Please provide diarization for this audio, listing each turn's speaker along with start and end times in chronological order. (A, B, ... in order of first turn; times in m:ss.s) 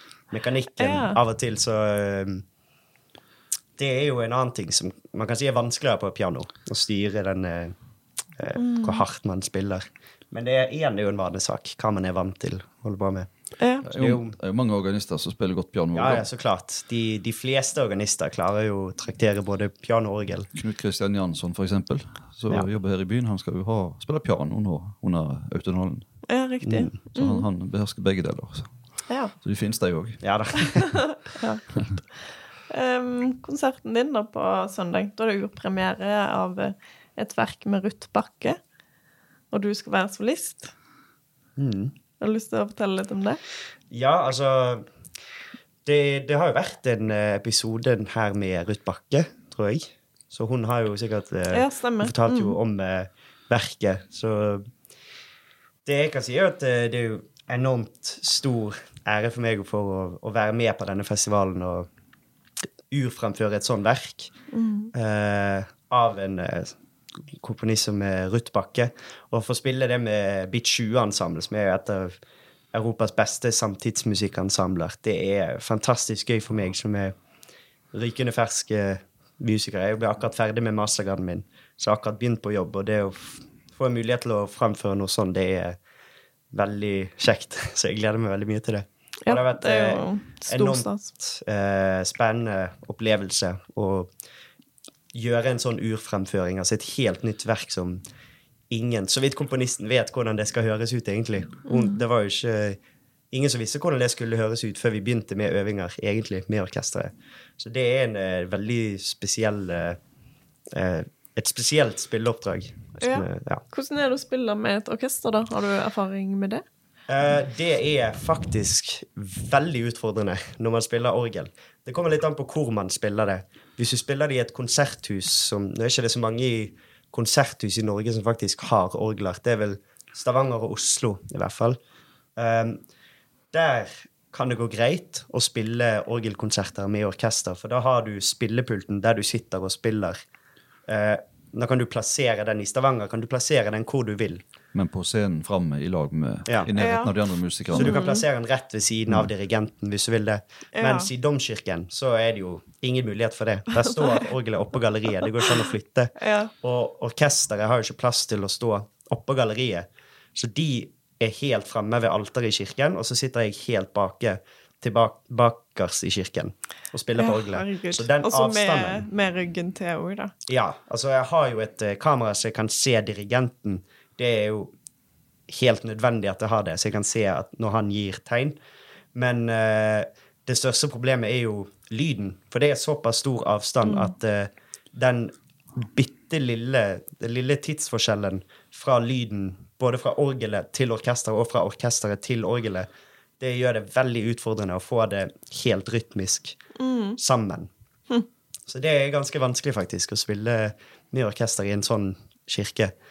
0:00.3-0:02.4 A
0:00.8-0:01.2 B
0:03.8-0:07.7 A
0:08.4-0:14.4 A
0:08.6-0:09.0 B
0:13.6-0:13.9 B
0:13.8-0:16.3 C
0:15.9-0:20.5 A
0:20.5-0:26.1 C
0:26.2-0:27.5 B
0:26.6-0:26.9 A
0:27.1-0:30.7 C
0:29.1-0:29.3 B
0:30.2-0:31.2 A
0:31.3-0:32.1 B
0:32.7-0:38.6 B
0:39.5-0:40.7 B
0:41.6-0:41.9 A
0:42.2-0:43.4 B
0:43.9-0:44.8 A
0:45.8-0:54.6 A
0:51.5-0:52.6 B
0:55.8-1:01.8 A
1:02.9-1:04.3 A
1:04.5-1:04.9 B
1:04.9-1:06.7 A
1:07.4-1:12.2 A
1:12.7-1:17.1 A
1:17.9-1:25.8 A
1:26.5-1:34.1 A
1:29.2-1:31.1 B
1:35.1-1:38.0 A
1:38.7-1:42.8 A
1:41.6-1:42.0 B
1:43.3-1:50.0 A
1:50.7-1:53.6 A
1:53.0-1:56.6 B
1:57.1-2:11.8 A
2:12.4-2:12.8 A
2:13.5-2:20.2 A
2:20.9-2:24.4 A
2:24.7-2:28.0 C
2:26.7-2:28.2 B
2:27.7-2:49.0 A
2:30.7-2:31.1 B
2:36.2-2:36.5 B
2:47.1-2:50.3 B
2:50.5-2:54.7 A
2:55.5-2:58.6 A
2:59.1-3:12.9 A
3:03.8-3:04.1 B
3:13.4-3:16.6 A
3:16.8-3:17.2 B
3:17.2-3:17.7 A
3:18.7-3:22.9 A